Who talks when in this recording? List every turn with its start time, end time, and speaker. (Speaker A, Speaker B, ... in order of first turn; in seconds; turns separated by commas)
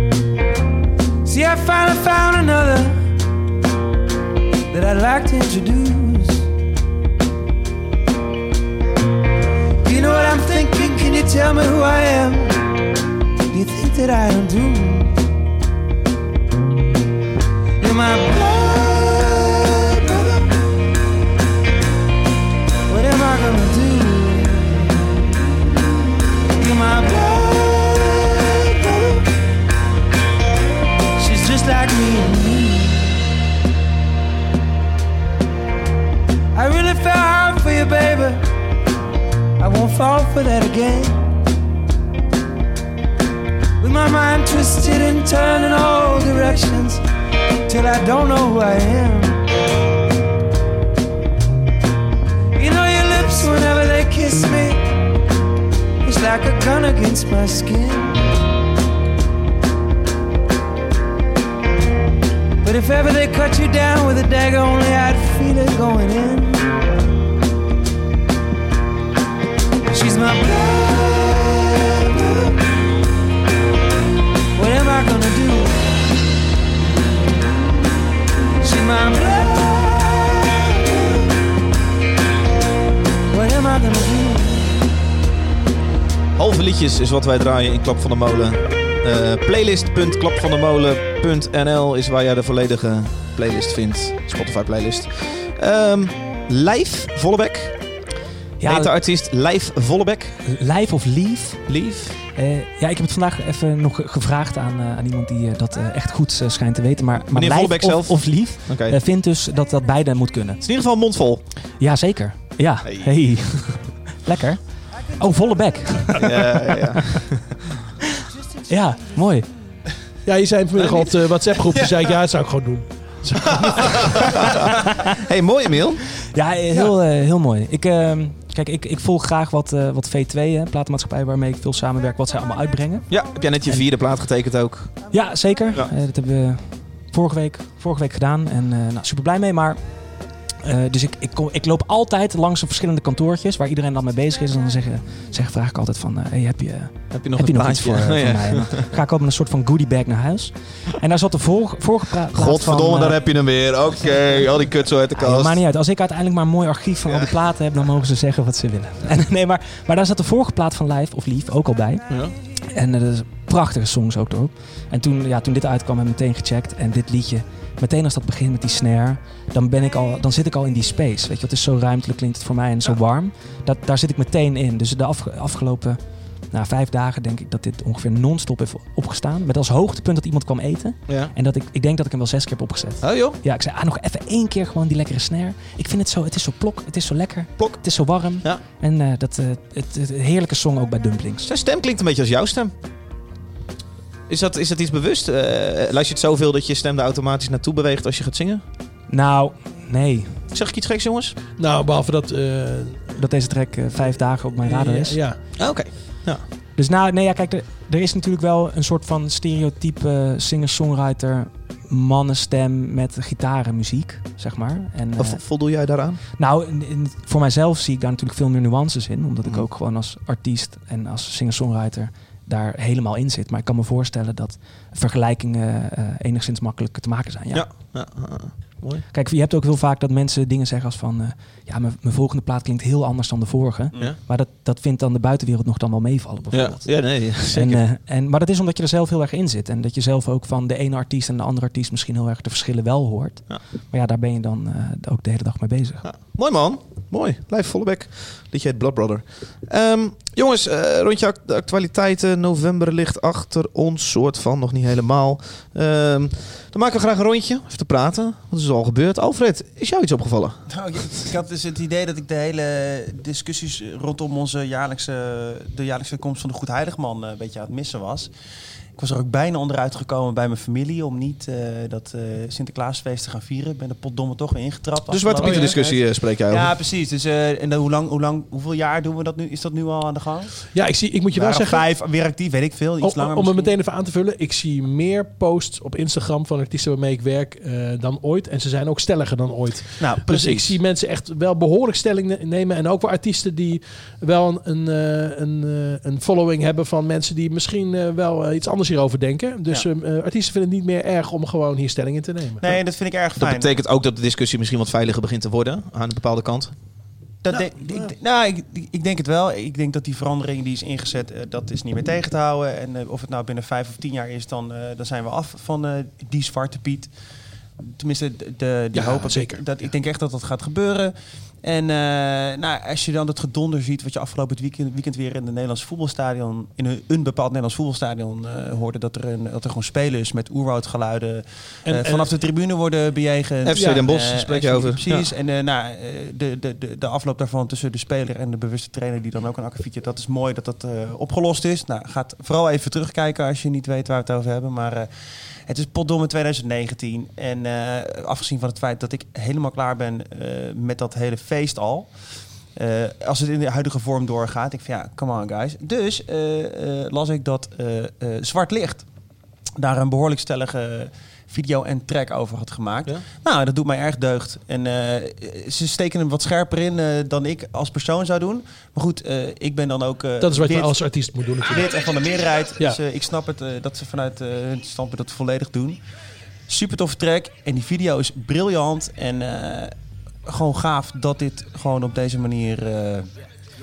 Speaker A: 1.2-3.1, Speaker A: 4.7-6.4, Speaker A: 9.8-12.7, Speaker A: 13.5-15.2, Speaker A: 17.8-20.5, Speaker A: 22.9-25.4, Speaker A: 26.6-29.2, Speaker A: 31.2-33.2, Speaker A: 36.5-38.5, Speaker A: 39.6-41.2, Speaker A: 43.8-47.0, Speaker A: 47.7-49.5, Speaker A: 52.5-54.9, Speaker A: 56.0-58.3, Speaker A: 62.6-66.8, Speaker A: 69.9-72.5, Speaker A: 74.5-75.8, Speaker A: 78.6-81.2, Speaker A: 83.3-84.7, Speaker B: 86.3-98.0, Speaker C: 98.6-98.9, Speaker B: 98.6-100.4, Speaker C: 100.4-110.6, Speaker B: 101.7-102.2, Speaker B: 107.3-109.0, Speaker B: 110.6-111.5, Speaker C: 111.7-117.2, Speaker B: 112.8-113.8, Speaker B: 116.2-117.5, Speaker C: 118.7-119.6, Speaker D: 120.2-124.4, Speaker E: 120.8-121.1, Speaker E: 121.7-122.0, Speaker B: 125.2-126.1, Speaker C: 126.3-133.9, Speaker B: 133.1-135.2, Speaker C: 135.1-153.7, Speaker B: 147.1-148.9, Speaker B: 152.3-155.6, Speaker C: 155.1-191.5, Speaker B: 157.0-157.3, Speaker B: 162.1-162.3, Speaker B: 181.1-181.3, Speaker B: 183.0-183.4, Speaker B: 187.6-188.6, Speaker B: 191.4-192.7, Speaker B: 194.3-198.6, Speaker C: 199.1-200.4, Speaker B: 200.5-201.4, Speaker D: 201.6-203.2, Speaker C: 203.2-205.2, Speaker D: 204.0-205.5, Speaker B: 205.6-206.4, Speaker C: 206.8-227.9, Speaker B: 215.2-216.2, Speaker B: 227.5-229.0, Speaker C: 229.1-246.0, Speaker B: 236.5-237.8, Speaker B: 246.0-260.7, Speaker E: 260.7-268.3, Speaker E: 268.9-280.7, Speaker B: 275.1-276.7, Speaker D: 275.4-275.8, Speaker D: 280.7-281.9, Speaker E: 281.3-283.8, Speaker D: 283.0-302.6, Speaker E: 290.0-290.8, Speaker E: 302.6-303.7, Speaker B: 303.4-307.1, Speaker E: 307.4-376.0, Speaker D: 307.5-308.1, Speaker D: 318.9-319.6, Speaker D: 331.8-332.3, Speaker B: 333.6-335.3, Speaker D: 333.7-334.1, Speaker D: 370.4-371.9, Speaker E: 376.7-383.3